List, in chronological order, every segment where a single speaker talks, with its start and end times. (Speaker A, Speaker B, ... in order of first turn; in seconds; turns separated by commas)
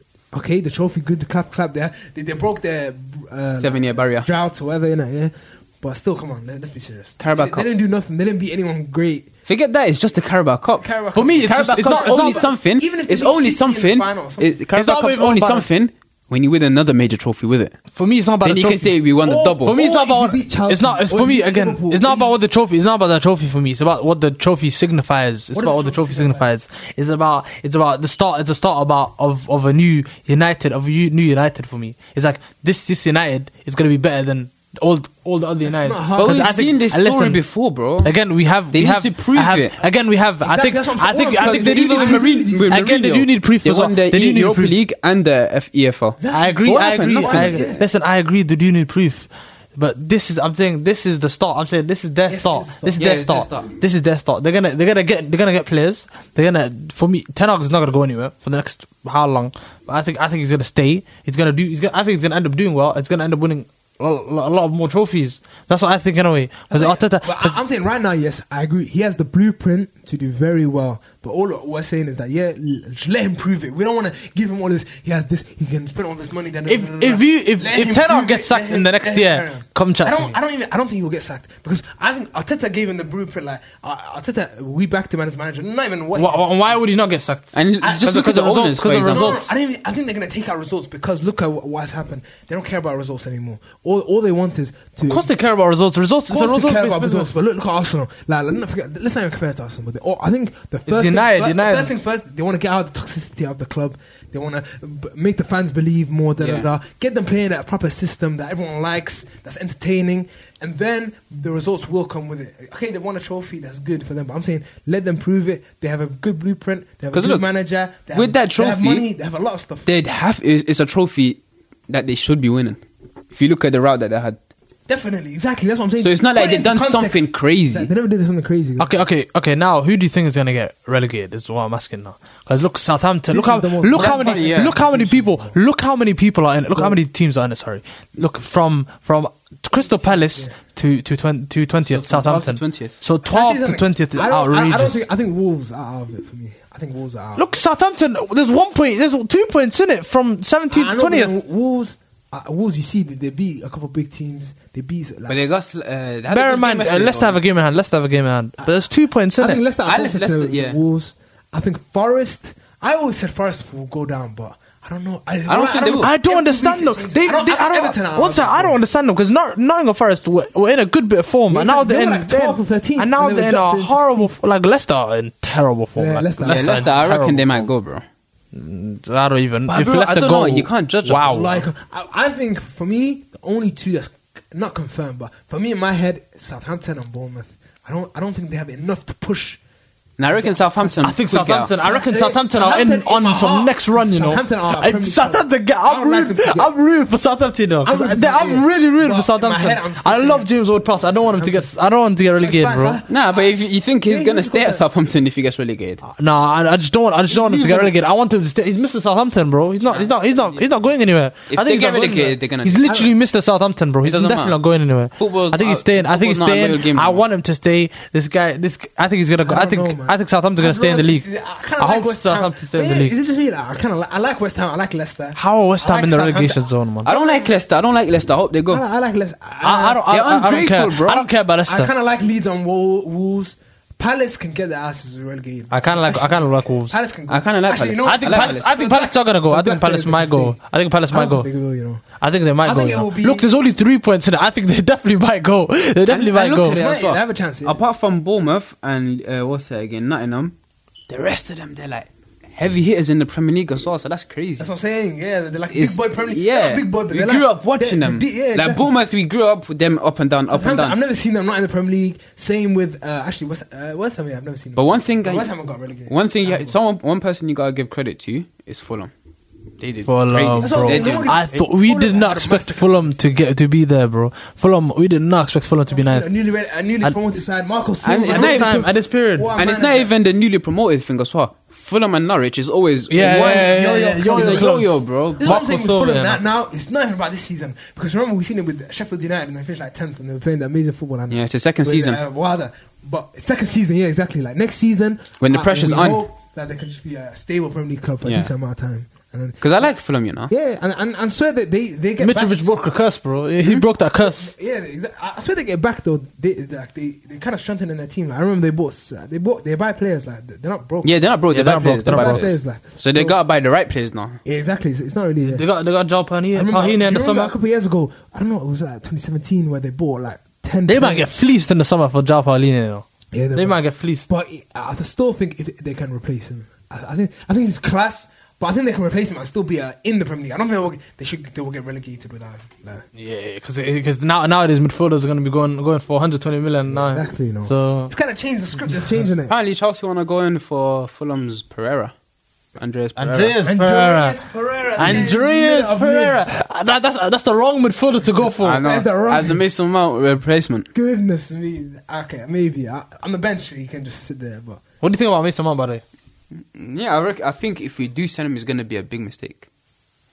Speaker A: 0.3-9.3, Speaker B: 3.6-4.3, Speaker B: 7.2-7.7, Speaker B: 9.5-10.9, Speaker A: 10.8-14.6, Speaker C: 11.1-12.4, Speaker B: 11.4-17.8, Speaker C: 14.8-15.7, Speaker C: 17.9-18.9, Speaker B: 18.4-19.8, Speaker A: 19.2-22.4, Speaker C: 19.6-37.4, Speaker A: 25.6-26.4, Speaker A: 35.6-36.5, Speaker B: 36.2-38.1, Speaker C: 38.0-44.8, Speaker B: 38.7-39.8, Speaker A: 40.4-42.8, Speaker B: 41.4-47.8, Speaker A: 46.2-47.8, Speaker C: 46.3-67.6, Speaker A: 52.3-53.0, Speaker B: 53.0-53.7, Speaker A: 66.7-86.5, Speaker C: 76.7-80.3, Speaker C: 86.2-89.5, Speaker B: 87.5-89.4, Speaker A: 87.8-88.1, Speaker A: 89.0-95.3, Speaker C: 95.1-97.3, Speaker A: 96.3-119.9, Speaker C: 100.9-101.9, Speaker B: 106.4-106.7, Speaker B: 117.1-117.5, Speaker B: 118.1-119.1, Speaker B: 119.9-122.8, Speaker B: 123.3-124.4, Speaker A: 124.9-128.9, Speaker B: 126.0-127.9, Speaker C: 128.8-145.0, Speaker A: 133.3-135.6, Speaker B: 133.9-134.8, Speaker A: 139.8-140.5, Speaker B: 141.9-142.9, Speaker A: 143.2-147.6, Speaker C: 147.4-151.4, Speaker A: 150.7-155.4, Speaker B: 155.3-157.4, Speaker C: 156.3-159.6, Speaker A: 159.4-168.8, Speaker B: 159.8-160.8, Speaker B: 165.5-166.1, Speaker C: 166.0-177.7, Speaker A: 171.5-174.3, Speaker A: 176.0-176.9, Speaker B: 176.5-178.0, Speaker C: 178.5-181.6, Speaker B: 179.7-181.6, Speaker A: 181.2-189.6, Speaker B: 190.2-191.7, Speaker A: 190.3-191.1, Speaker C: 191.0-203.0, Speaker A: 191.8-196.7, Speaker A: 197.8-201.7, Speaker A: 202.4-204.8, Speaker B: 203.1-206.0, Speaker C: 206.1-221.3, Speaker B: 207.3-207.9, Speaker B: 209.8-210.7, Speaker B: 211.5-212.8, Speaker A: 212.8-213.1, Speaker B: 214.0-214.6, Speaker B: 215.2-217.2, Speaker A: 219.4-227.6, Speaker C: 221.8-223.1, Speaker C: 225.3-227.1, Speaker B: 227.1-228.8, Speaker A: 228.7-230.1, Speaker C: 229.6-231.9, Speaker B: 230.1-231.3, Speaker A: 231.7-240.6, Speaker C: 235.7-237.0, Speaker B: 237.3-238.7, Speaker C: 238.0-241.5, Speaker A: 241.1-242.0, Speaker C: 242.2-246.8, Speaker A: 242.6-243.5, Speaker B: 246.1-250.6, Speaker A: 246.6-247.8, Speaker B: 251.1-254.7, Speaker A: 254.6-258.9, Speaker B: 255.7-261.0, Speaker A: 260.5-266.8, Speaker B: 264.8-265.5, Speaker B: 266.1-269.1, Speaker B: 269.8-271.4, Speaker C: 270.1-276.3, Speaker A: 270.6-273.3, Speaker A: 275.9-280.1, Speaker B: 278.0-278.9, Speaker C: 278.2-279.5, Speaker B: 279.6-285.6, Speaker C: 283.1-286.4, Speaker A: 283.2-284.7, Speaker A: 285.4-299.9, Speaker B: 291.3-292.2, Speaker B: 295.4-296.3, Speaker B: 298.2-298.5, Speaker B: 299.6-300.5, Speaker A: 300.5-302.7, Speaker C: 302.2-304.5, Speaker A: 304.0-311.3, Speaker B: 311.0-314.4, Speaker C: 311.5-312.5, Speaker A: 312.0-313.4, Speaker A: 314.4-315.6, Speaker C: 315.5-317.5, Speaker A: 316.5-321.3, Speaker C: 320.9-324.3, Speaker A: 323.3-333.1, Speaker C: 333.2-338.1, Speaker A: 336.9-339.6, Speaker B: 339.5-342.1, Speaker B: 342.8-343.6, Speaker C: 343.2-344.4, Speaker A: 343.6-346.4, Speaker C: 345.0-348.9, Speaker B: 348.6-350.9, Speaker A: 348.8-349.6, Speaker A: 350.9-354.8, Speaker C: 355.0-356.0, Speaker B: 356.6-359.7